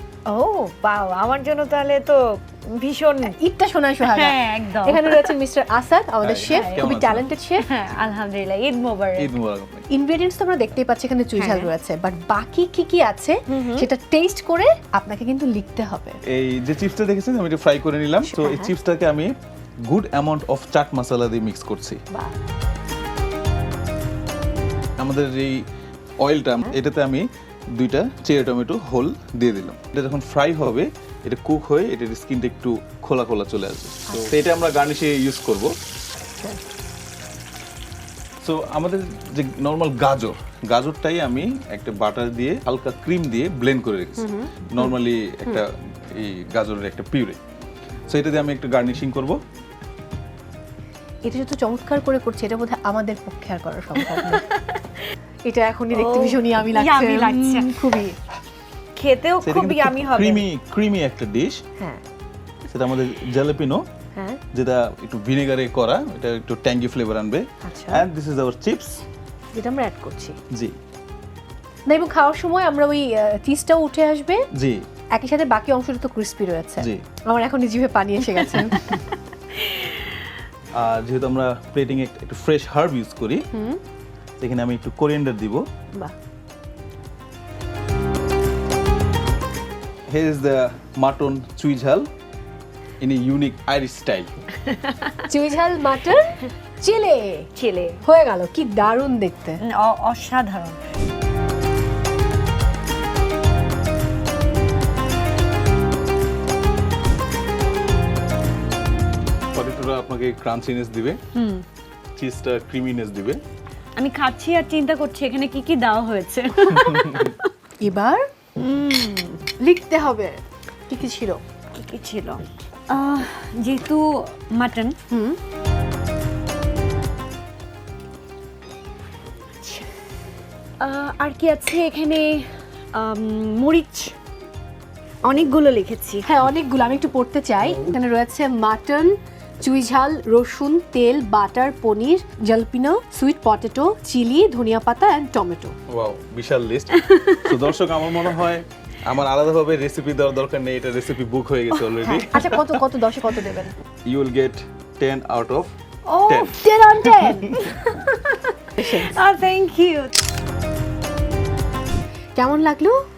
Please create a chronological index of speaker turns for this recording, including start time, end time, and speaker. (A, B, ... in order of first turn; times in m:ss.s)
0:00.3-0:03.4 A
0:03.4-0:07.7 B
0:04.0-0:05.4 A
0:06.2-0:07.3 C
0:06.5-0:06.8 A
0:07.6-0:09.3 A
0:09.2-0:09.9 C
0:09.9-0:16.2 B
0:11.4-0:11.7 A
0:13.5-0:13.8 A
0:16.3-0:19.3 C
0:18.2-0:18.7 B
0:19.8-0:22.0 C
0:25.0-0:25.6 C
0:26.2-0:35.7 C
0:36.4-0:36.7 B
0:38.4-0:47.4 C
0:44.2-0:44.9 B
0:48.1-0:49.4 C
0:51.2-0:54.4 B
0:54.1-0:55.0 A
0:55.5-0:58.2 B
0:55.9-0:58.0 A
0:59.0-1:00.4 A
0:59.4-1:01.6 C
1:02.7-1:03.8 C
1:04.2-1:04.4 B
1:04.5-1:09.0 C
1:07.6-1:08.0 B
1:09.6-1:10.4 B
1:10.5-1:10.8 C
1:11.9-1:14.5 B
1:14.6-1:14.8 C
1:15.2-1:19.0 B
1:19.6-1:19.9 A
1:20.7-1:23.5 C
1:23.5-1:23.8 B
1:24.4-1:25.6 C
1:30.1-1:32.1 C
1:33.0-1:34.3 C
1:34.7-1:35.1 A
1:35.2-1:37.5 B
1:37.6-1:38.0 A
1:38.0-1:39.6 B
1:39.6-1:40.8 A
1:49.5-1:51.2 C
1:51.4-1:51.6 A
1:52.2-1:53.4 C
1:54.0-1:57.5 A
1:57.8-1:58.2 B
1:58.6-1:59.4 A
1:59.6-2:01.4 B
2:01.8-2:05.0 A
2:05.1-2:05.4 B
2:09.6-2:09.9 A
2:10.8-2:14.2 A
2:15.2-2:16.2 A
2:16.2-2:25.8 B
2:25.9-2:32.8 C
2:32.0-2:33.8 B
2:34.1-2:35.7 C
2:36.1-2:36.8 A
2:36.3-2:36.6 C
2:36.5-2:37.6 B
2:37.1-2:37.4 C
2:37.5-2:40.1 A
2:38.8-2:39.2 B
2:42.4-2:43.0 B